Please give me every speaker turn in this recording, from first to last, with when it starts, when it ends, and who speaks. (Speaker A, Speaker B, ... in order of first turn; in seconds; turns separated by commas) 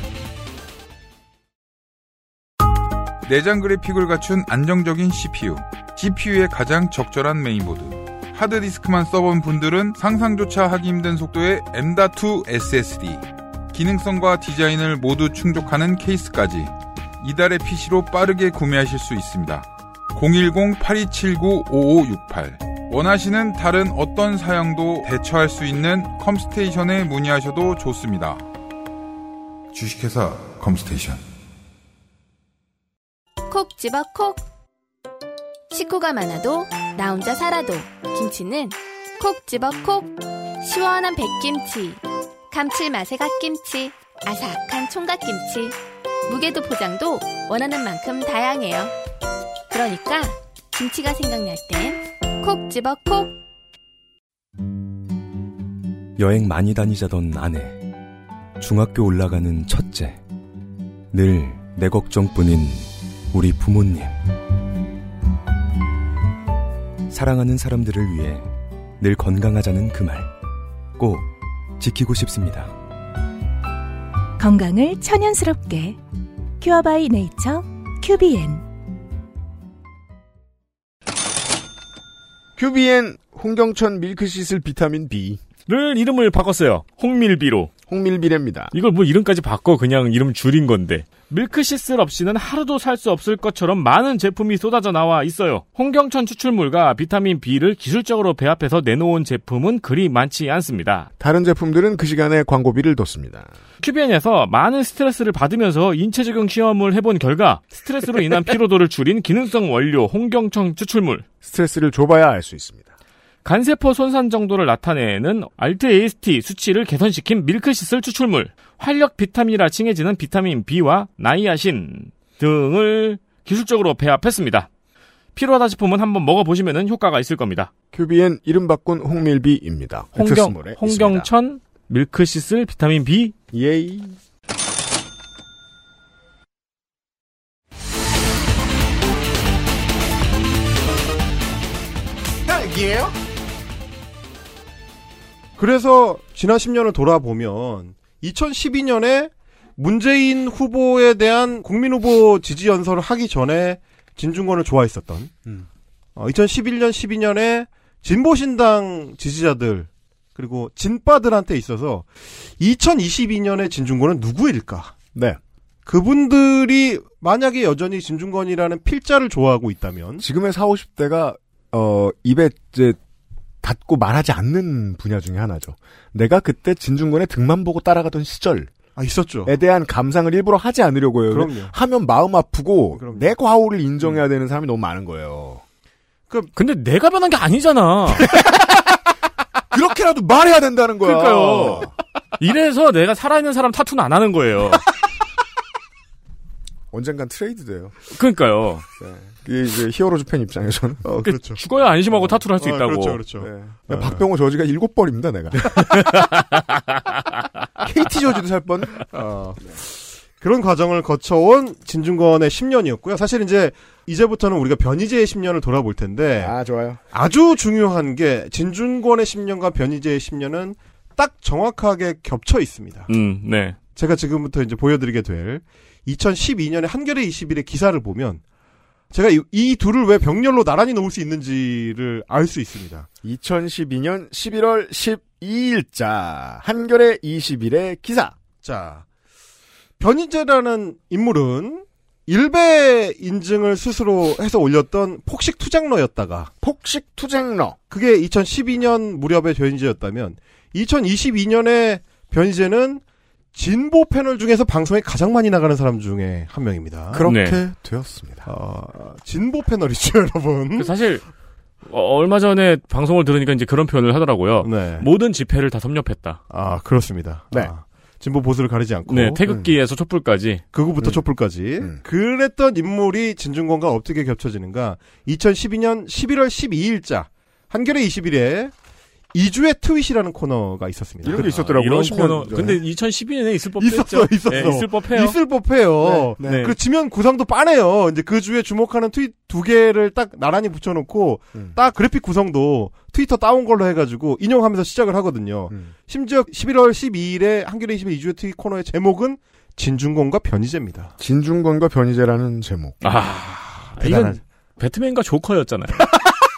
Speaker A: 3.3-28.4, Speaker A: 29.7-31.2, Speaker B: 33.5-34.4, Speaker B: 35.7-48.9, Speaker B: 49.7-53.4, Speaker C: 56.2-57.8, Speaker C: 58.6-60.2, Speaker C: 61.1-64.2, Speaker C: 67.1-70.3, Speaker C: 71.0-72.7, Speaker D: 74.4-76.0, Speaker D: 76.6-78.6, Speaker E: 82.6-85.4, Speaker F: 85.7-87.7, Speaker E: 87.9-88.7, Speaker F: 88.7-101.1, Speaker E: 101.2-103.5, Speaker F: 103.8-111.2, Speaker E: 111.4-112.9, Speaker F: 113.5-124.7, Speaker F: 125.4-127.7, Speaker E: 127.9-131.3, Speaker F: 130.2-133.3, Speaker E: 133.5-134.2, Speaker G: 142.7-143.0, Speaker G: 145.6-155.3, Speaker G: 156.2-164.9, Speaker E: 165.1-165.4, Speaker G: 165.9-170.2, Speaker E: 170.2-173.0, Speaker E: 173.6-178.7, Speaker G: 179.0-179.5, Speaker E: 179.5-185.6, Speaker G: 181.3-181.7, Speaker G: 182.9-183.3, Speaker F: 186.6-188.3, Speaker E: 188.2-189.0, Speaker E: 189.7-191.9, Speaker F: 191.0-194.9, Speaker E: 196.9-198.0, Speaker F: 198.1-198.8, Speaker E: 199.0-201.1, Speaker G: 201.1-201.6, Speaker F: 201.2-203.2, Speaker G: 202.6-204.2, Speaker E: 203.4-206.2, Speaker F: 205.9-206.6, Speaker E: 207.8-209.1, Speaker G: 209.1-216.5, Speaker E: 216.4-217.0, Speaker G: 217.1-223.1, Speaker F: 223.1-223.8, Speaker G: 223.9-228.4, Speaker G: 229.1-233.1, Speaker E: 233.2-238.3, Speaker G: 238.6-239.1, Speaker G: 240.0-246.5, Speaker E: 246.6-247.8, Speaker G: 247.9-253.0, Speaker G: 253.5-257.3, Speaker E: 257.1-258.5, Speaker F: 257.2-257.6, Speaker G: 258.5-260.9, Speaker F: 260.8-261.2, Speaker F: 261.9-266.4, Speaker G: 264.6-265.1, Speaker G: 266.5-269.4, Speaker F: 269.1-270.6, Speaker E: 269.5-269.7, Speaker G: 270.7-278.7, Speaker G: 279.3-281.5, Speaker E: 281.2-282.8, Speaker F: 281.3-285.4, Speaker G: 283.8-301.1, Speaker E: 286.0-286.7, Speaker F: 286.4-286.8, Speaker E: 301.2-303.2, Speaker F: 303.0-306.1, Speaker G: 303.8-304.4